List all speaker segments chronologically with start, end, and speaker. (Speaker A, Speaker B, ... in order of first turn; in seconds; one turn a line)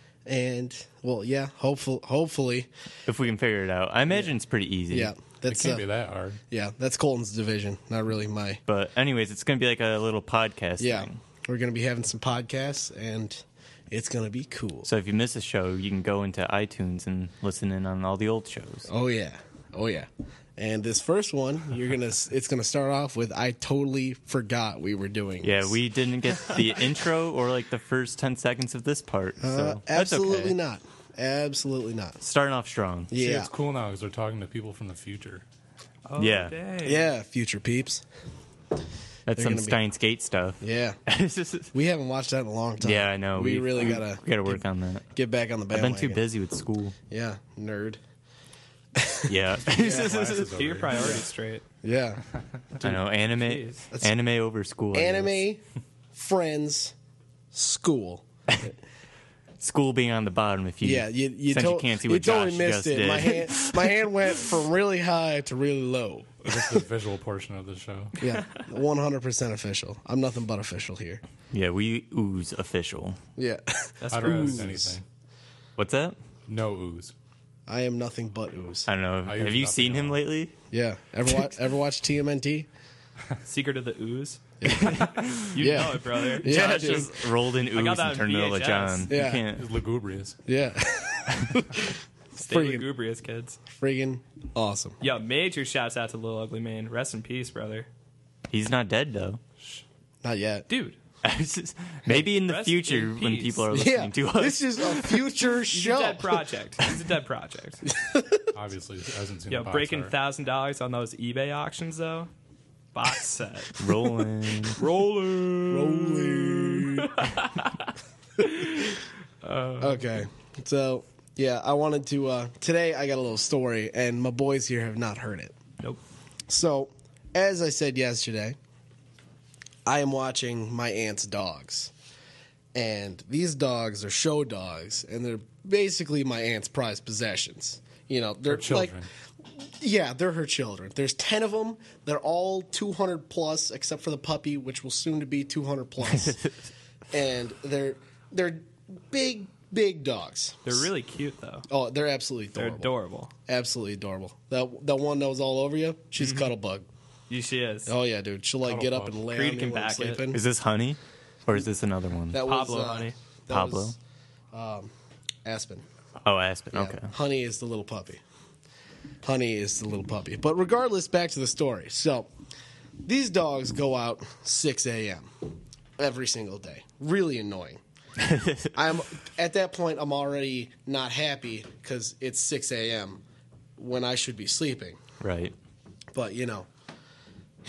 Speaker A: 0.2-2.7
Speaker B: 3.0-5.1
Speaker A: 4.9-5.8
Speaker C: 5.5-6.4
Speaker A: 6.5-8.6
Speaker B: 8.7-11.2
Speaker A: 10.8-14.9
Speaker B: 14.8-18.9
Speaker A: 18.9-25.8
Speaker B: 25.4-30.5
Speaker A: 29.4-32.2
Speaker B: 32.2-33.1
Speaker A: 33.1-33.5
Speaker C: 33.1-35.4
Speaker D: 36.1-37.1
Speaker B: 36.2-36.5
Speaker A: 36.8-38.0
Speaker B: 39.3-41.7
Speaker A: 39.3-39.8
Speaker A: 40.6-41.0
Speaker A: 41.7-44.6
Speaker B: 42.8-45.0
Speaker A: 45.1-46.2
Speaker B: 45.7-46.9
Speaker A: 47.1-48.0
Speaker A: 49.0-50.1
Speaker B: 49.3-50.5
Speaker C: 49.7-51.2
Speaker D: 49.8-51.6
Speaker A: 51.8-52.2
Speaker B: 52.8-55.4
Speaker D: 53.4-53.8
Speaker A: 53.9-54.2
Speaker A: 54.9-55.6
Speaker A: 56.1-56.9
Speaker A: 57.5-58.2
Speaker B: 59.6-64.0
Speaker A: 60.8-66.8
Speaker C: 66.4-68.2
Speaker A: 68.2-71.2
Speaker B: 71.5-73.2
Speaker A: 73.4-75.0
Speaker D: 74.0-74.8
Speaker C: 74.1-75.0
Speaker B: 75.8-76.2
Speaker C: 76.5-77.1
Speaker A: 77.7-78.9
Speaker B: 78.9-80.5
Speaker C: 79.2-80.2
Speaker A: 80.7-82.7
Speaker D: 83.4-84.4
Speaker A: 84.6-87.1
Speaker B: 84.8-85.5
Speaker D: 85.5-89.1
Speaker B: 86.3-89.6
Speaker A: 89.1-89.5
Speaker C: 89.5-90.4
Speaker A: 90.5-92.9
Speaker D: 92.4-93.6
Speaker A: 93.7-95.0
Speaker D: 95.0-97.9
Speaker B: 98.5-99.4
Speaker A: 100.2-100.7
Speaker D: 100.7-101.0
Speaker B: 101.2-105.2
Speaker D: 102.1-103.7
Speaker A: 103.7-106.4
Speaker D: 105.7-107.8
Speaker A: 107.9-108.5
Speaker C: 108.5-110.1
Speaker D: 109.5-112.3
Speaker D: 112.9-113.8
Speaker B: 113.8-114.8
Speaker D: 114.8-117.7
Speaker A: 115.7-117.1
Speaker D: 118.4-120.0
Speaker A: 119.8-125.5
Speaker A: 126.5-128.6
Speaker A: 129.8-131.9
Speaker A: 132.7-139.0
Speaker C: 138.5-139.1
Speaker A: 139.6-146.4
Speaker B: 146.1-146.5
Speaker A: 147.1-150.8
Speaker D: 150.6-151.7
Speaker A: 151.7-152.9
Speaker D: 152.5-153.3
Speaker A: 153.5-156.9
Speaker D: 156.2-156.5
Speaker D: 157.3-157.9
Speaker A: 157.8-160.4
Speaker C: 158.6-159.2
Speaker D: 159.3-160.3
Speaker B: 160.3-162.4
Speaker A: 162.3-163.9
Speaker D: 162.4-163.2
Speaker B: 163.5-163.9
Speaker A: 164.5-164.9
Speaker A: 165.4-165.8
Speaker B: 166.2-167.1
Speaker A: 166.7-168.2
Speaker A: 169.2-172.3
Speaker A: 173.0-177.8
Speaker B: 178.2-178.7
Speaker A: 178.7-183.2
Speaker A: 183.8-185.0
Speaker B: 185.2-185.5
Speaker A: 186.1-186.7